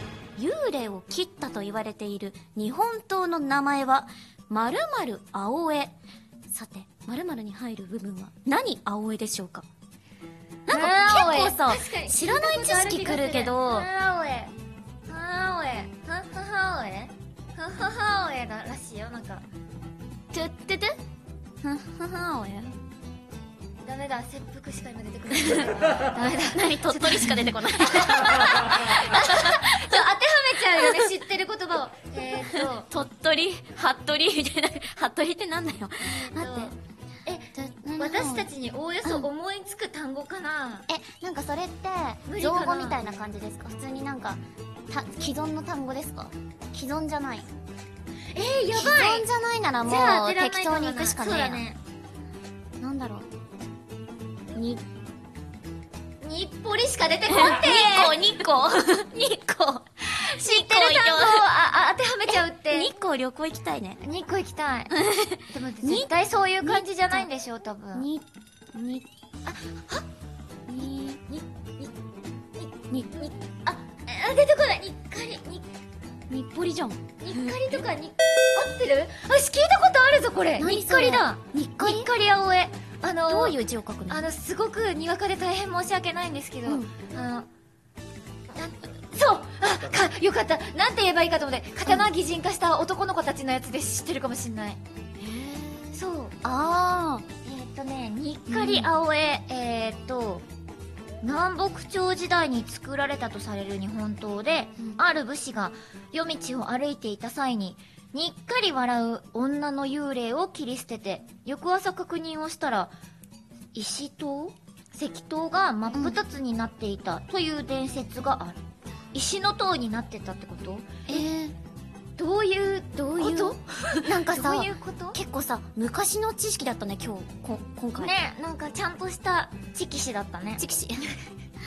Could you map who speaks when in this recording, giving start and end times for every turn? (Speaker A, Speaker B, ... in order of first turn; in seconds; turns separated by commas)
Speaker A: 0.4-5.9, Speaker A: 6.5-9.7, Speaker A: 10.7-13.9, Speaker B: 10.7-14.5, Speaker B: 15.1-19.4, Speaker A: 20.3-20.9, Speaker A: 21.6-22.8, Speaker B: 23.8-32.9, Speaker A: 26.5-29.8, Speaker A: 32.8-36.8, Speaker B: 36.1-36.8, Speaker B: 37.3-40.9, Speaker A: 37.5-38.5, Speaker A: 40.9-47.5, Speaker B: 42.3-43.0, Speaker B: 48.3-49.3, Speaker A: 48.7-51.6, Speaker B: 49.9-51.8, Speaker A: 52.8-53.3, Speaker A: 54.5-54.8, Speaker B: 56.2-58.3, Speaker A: 57.3-61.5, Speaker B: 60.1-62.9, Speaker A: 62.3-64.0, Speaker B: 64.0-64.9, Speaker A: 65.0-66.1, Speaker B: 65.5-68.1, Speaker A: 66.6-67.3, Speaker A: 67.9-69.1, Speaker B: 69.5-70.1, Speaker A: 70.7-71.2, Speaker B: 70.8-71.9, Speaker B: 72.6-72.8, Speaker A: 72.9-73.3, Speaker B: 73.7-75.7, Speaker A: 76.3-77.8, Speaker B: 77.2-83.6, Speaker A: 80.6-82.1, Speaker A: 83.3-84.3, Speaker B: 84.1-87.5, Speaker A: 86.7-86.9, Speaker B: 88.5-94.8, Speaker A: 95.2-97.2, Speaker B: 95.9-96.4, Speaker B: 97.5-100.5, Speaker A: 98.5-98.9, Speaker B: 101.2-112.9, Speaker B: 113.7-118.6, Speaker A: 115.9-116.2, Speaker B: 119.1-121.3, Speaker A: 121.1-121.5, Speaker B: 122.2-125.2, Speaker A: 123.2-128.1, Speaker B: 128.0-130.6, Speaker A: 130.6-131.1